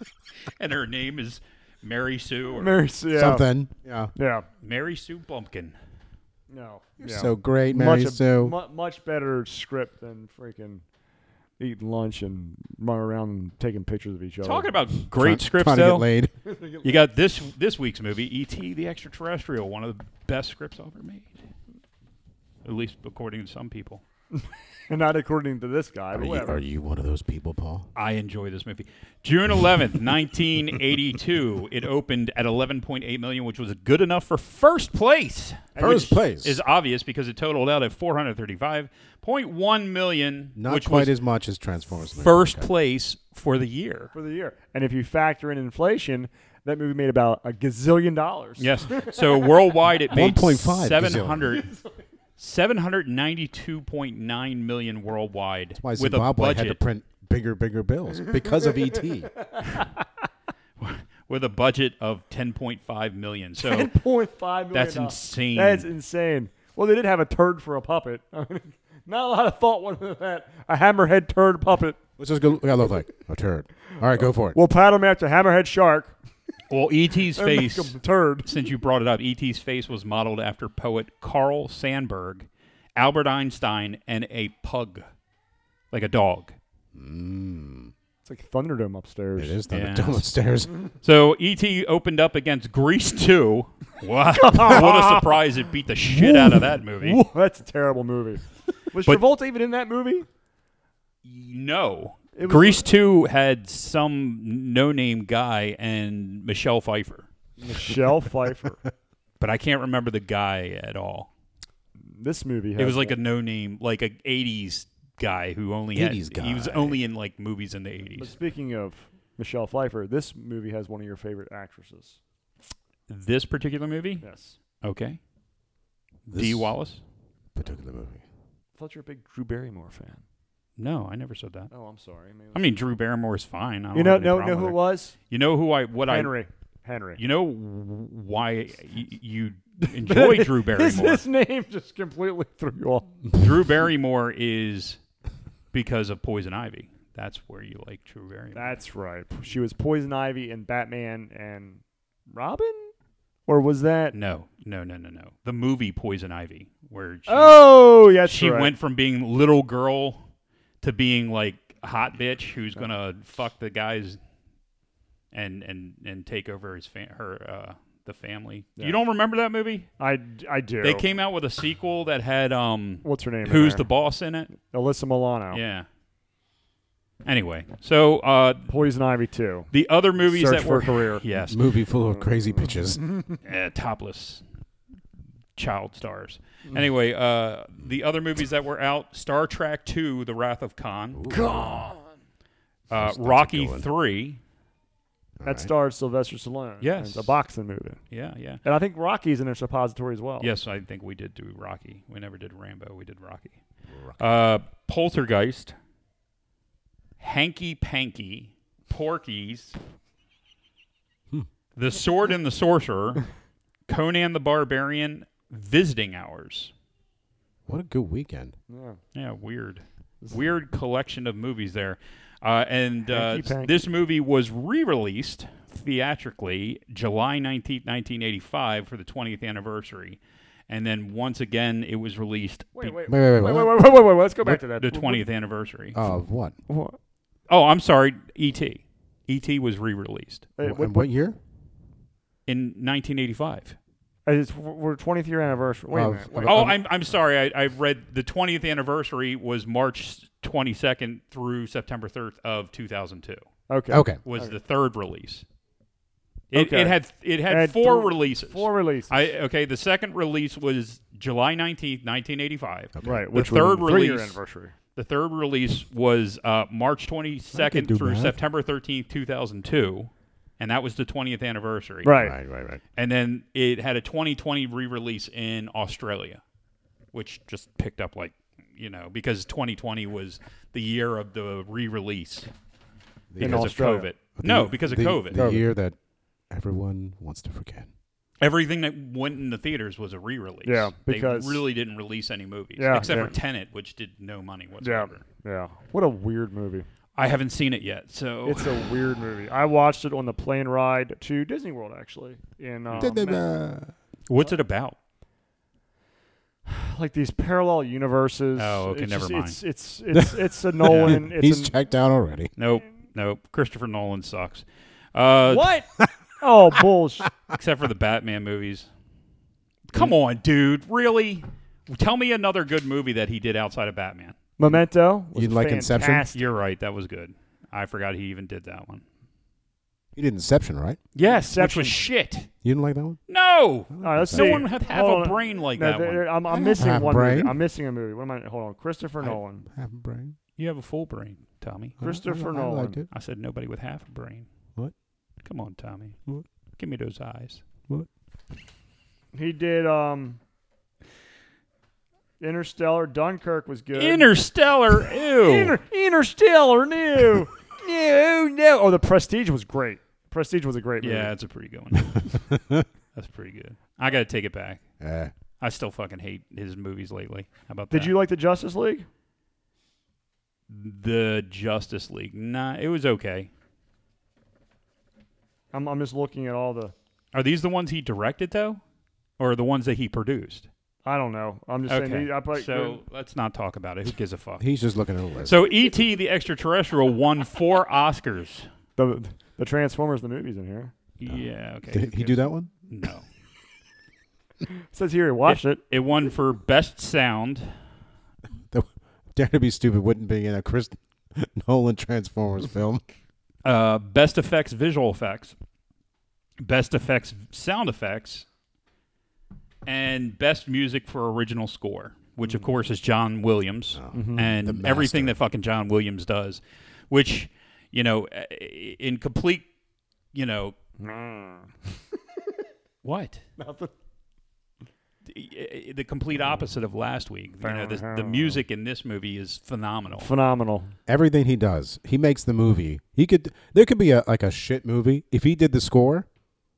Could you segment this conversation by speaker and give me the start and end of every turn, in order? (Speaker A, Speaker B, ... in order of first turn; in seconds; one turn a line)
Speaker A: 0.6-2.8
Speaker B: 2.5-3.5
Speaker C: 3.1-4.1
Speaker B: 4.2-4.5
Speaker A: 4.6-5.8
Speaker B: 6.5-10.8
Speaker C: 7.0-8.6
Speaker B: 11.6-14.8
Speaker A: 14.4-16.1
Speaker C: 15.1-16.3
Speaker B: 16.4-17.0
Speaker A: 16.8-21.4
Speaker A: 22.6-24.0
Speaker B: 24.4-26.6
Speaker C: 26.1-27.9
Speaker A: 27.9-41.1
Speaker B: 35.8-36.2
Speaker C: 35.8-36.6
Speaker C: 40.6-42.7
Speaker A: 42.2-44.1
Speaker B: 44.1-49.4
Speaker A: 48.6-51.7
Speaker C: 50.1-51.6
Speaker A: 52.4-56.8
Speaker C: 55.8-59.3
Speaker B: 58.2-60.0
Speaker A: 60.8-63.9
Speaker B: 63.6-72.0
Speaker A: 64.7-65.9
Speaker C: 72.2-74.6
Speaker B: 74.5-76.2
Speaker A: 76.7-85.0
Speaker B: 77.3-78.5
Speaker A: 85.9-86.6
Speaker C: 87.0-87.9
Speaker B: 88.2-89.6
Speaker C: 89.4-90.7
Speaker A: 89.7-90.3
Speaker A: 91.0-97.2
Speaker B: 94.3-95.4
Speaker B: 96.1-100.3
Speaker A: 101.2-107.3
Speaker B: 102.3-102.9
Speaker B: 107.6-108.8
Speaker A: 109.4-111.3
Speaker B: 112.0-113.2
Speaker A: 112.8-118.3
Speaker C: 115.9-117.0
Speaker B: 118.2-122.2
Speaker A: 123.1-124.2
Speaker B: 124.2-124.6
Speaker A: 124.8-125.2
Speaker A: 126.3-127.0
Speaker C: 126.3-126.7
Speaker C: 127.5-128.2
Speaker B: 128.8-130.2
Speaker A: 130.8-131.7
Speaker B: 131.7-132.7
Speaker A: 132.5-136.3
Speaker B: 133.9-135.2
Speaker B: 136.1-137.2
Speaker A: 137.2-141.2
Speaker B: 139.8-143.1
Speaker A: 143.3-145.0
Speaker A: 145.7-148.7
Speaker B: 148.5-152.9
Speaker B: 153.5-154.2
Speaker A: 154.1-160.2
Speaker B: 157.3-158.7
Speaker A: 160.8-164.2
Speaker A: 165.3-169.9
Speaker B: 170.0-171.1
Speaker A: 170.8-174.5
Speaker B: 173.0-173.9
Speaker B: 174.6-175.6
Speaker A: 175.5-175.9
Speaker A: 177.2-178.7
Speaker B: 178.7-179.7
Speaker A: 179.7-181.6
Speaker B: 180.2-181.2
Speaker C: 181.4-183.0
Speaker A: 183.4-184.4
Speaker A: 185.6-191.4
Speaker C: 191.1-191.9
Speaker B: 191.3-192.1
Speaker A: 192.9-194.4
Speaker C: 192.9-193.9
Speaker C: 195.4-195.7
Speaker B: 195.4-198.0
Speaker A: 196.8-197.3
Speaker A: 198.1-198.6
Speaker B: 198.6-200.5
Speaker A: 200.4-203.6
Speaker C: 203.9-204.2
Speaker A: 204.2-205.8
Speaker A: 207.2-209.8
Speaker A: 211.8-213.3
Speaker A: 213.9-216.7
Speaker C: 217.7-218.6
Speaker B: 218.7-219.0
Speaker A: 219.2-233.0
Speaker B: 223.1-223.8
Speaker B: 232.8-235.2
Speaker C: 233.1-233.9
Speaker A: 234.8-236.1
Speaker C: 235.9-236.6
Speaker B: 236.7-237.0
Speaker A: 237.5-240.5
Speaker B: 240.6-241.1
Speaker C: 240.6-241.4
Speaker A: 242.5-243.8
Speaker B: 244.3-246.8
Speaker C: 245.9-246.8
Speaker A: 246.4-253.4
Speaker B: 253.7-254.5
Speaker C: 253.9-254.2
Speaker A: 254.2-255.4
Speaker A: 256.5-264.4
Speaker B: 256.5-259.2
Speaker C: 263.0-263.2
Speaker B: 263.0-264.7
Speaker A: 264.9-272.2
Speaker C: 267.5-268.4
Speaker B: 272.0-272.4
Speaker C: 272.2-272.8
Speaker A: 273.0-276.4
Speaker A: 277.1-282.5
Speaker C: 283.3-283.7
Speaker A: 283.4-285.4
Speaker B: 283.4-284.1
Speaker C: 284.4-286.0
Speaker C: 286.5-287.9
Speaker A: 288.4-295.2
Speaker B: 290.6-291.6
Speaker B: 292.8-293.3
Speaker B: 294.8-296.9
Speaker A: 297.2-298.8
Speaker B: 298.4-303.4
Speaker C: 303.0-303.9
Speaker A: 304.3-305.0
Speaker B: 306.7-311.7
Speaker A: 308.6-309.6
Speaker C: 310.8-312.5
Speaker A: 310.9-311.2
Speaker A: 312.6-315.7
Speaker B: 315.4-317.3
Speaker A: 317.5-318.9
Speaker A: 319.9-324.4
Speaker B: 324.6-326.5
Speaker C: 325.3-326.3
Speaker A: 326.3-329.0
Speaker C: 330.2-331.0
Speaker A: 331.1-332.5
Speaker B: 331.2-332.0
Speaker C: 332.6-333.2
Speaker A: 333.3-336.3
Speaker C: 333.9-334.7
Speaker B: 334.0-339.7
Speaker C: 336.6-337.6
Speaker C: 339.2-340.4
Speaker A: 340.6-342.0
Speaker C: 342.0-343.1
Speaker B: 342.0-343.0
Speaker A: 343.1-344.5
Speaker A: 345.4-346.2
Speaker A: 346.8-347.6
Speaker B: 349.3-350.4
Speaker B: 352.4-354.3
Speaker A: 353.9-355.8
Speaker B: 355.4-361.3
Speaker A: 361.0-362.6
Speaker C: 362.6-362.8
Speaker A: 363.1-364.8
Speaker C: 365.0-365.3
Speaker A: 365.6-368.1
Speaker B: 367.9-369.1
Speaker A: 370.7-373.5
Speaker B: 375.7-376.9
Speaker A: 377.3-378.8
Speaker A: 379.4-380.7
Speaker B: 381.1-383.0
Speaker A: 381.9-384.6
Speaker C: 384.6-385.6
Speaker A: 385.4-388.7
Speaker B: 389.0-390.9
Speaker A: 391.2-393.2
Speaker C: 391.3-392.7
Speaker B: 394.9-395.8
Speaker A: 395.5-397.8
Speaker C: 398.7-403.0
Speaker A: 403.6-405.6
Speaker A: 406.6-408.5
Speaker A: 409.9-419.7
Speaker C: 413.9-415.4
Speaker B: 414.1-414.5
Speaker A: 420.3-420.8
Speaker B: 421.0-422.6
Speaker A: 423.0-423.4
Speaker B: 423.6-423.9
Speaker A: 425.3-430.3
Speaker B: 427.6-428.6
Speaker B: 430.2-430.9
Speaker C: 431.1-436.3